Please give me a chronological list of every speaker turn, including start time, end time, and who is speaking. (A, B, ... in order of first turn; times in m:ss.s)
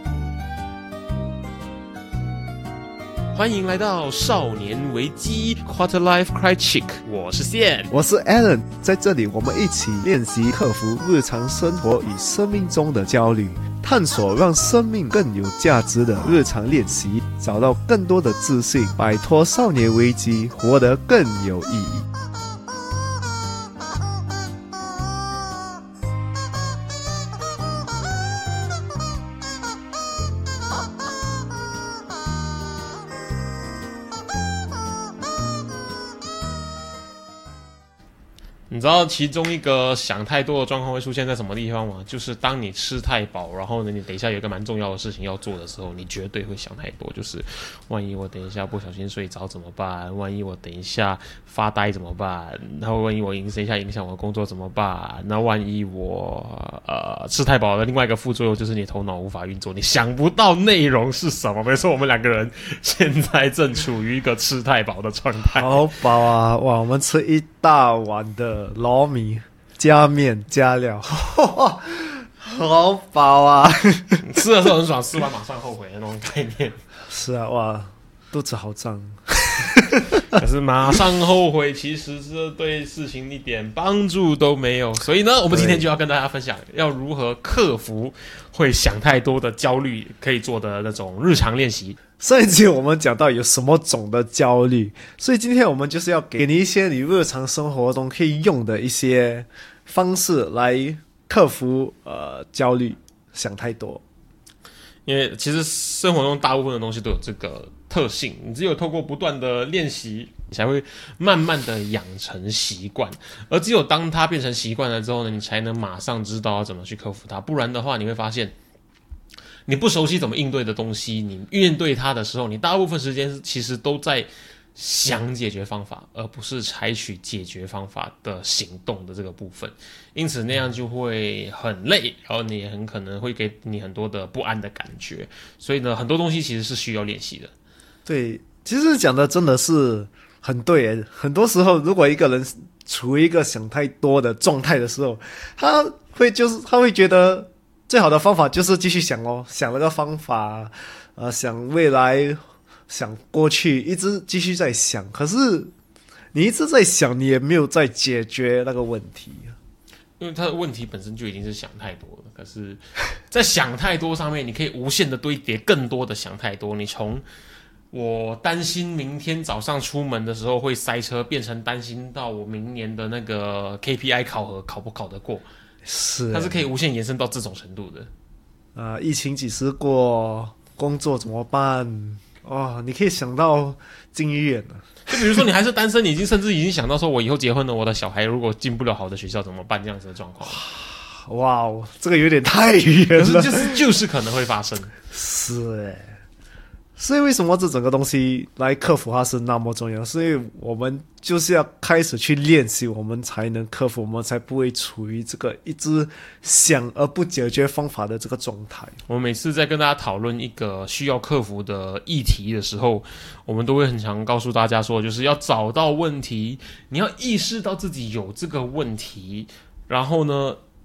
0:03.3-0:07.9 A
0:07.9-0:22.1 B
0:38.7-1:05.8 A
1:05.5-1:14.2 B
1:14.2-1:16.8 A
1:17.1-1:20.3 B
1:20.3-1:32.0 A
1:25.5-1:25.8 B
1:32.2-1:44.0 B
1:45.1-1:58.6 A
1:59.7-2:17.5 A
2:18.1-2:35.7 B
2:36.3-2:39.6 B
2:40.2-2:47.2 A
2:47.9-2:55.5 A
2:55.9-2:56.7 B
2:56.3-2:58.1 A
2:58.8-3:05.4 B
3:05.1-3:10.6 A
3:10.4-3:13.8 B
3:13.2-3:14.9 A
3:15.1-3:16.1 B
3:17.0-3:29.0 B
3:29.1-3:40.6 A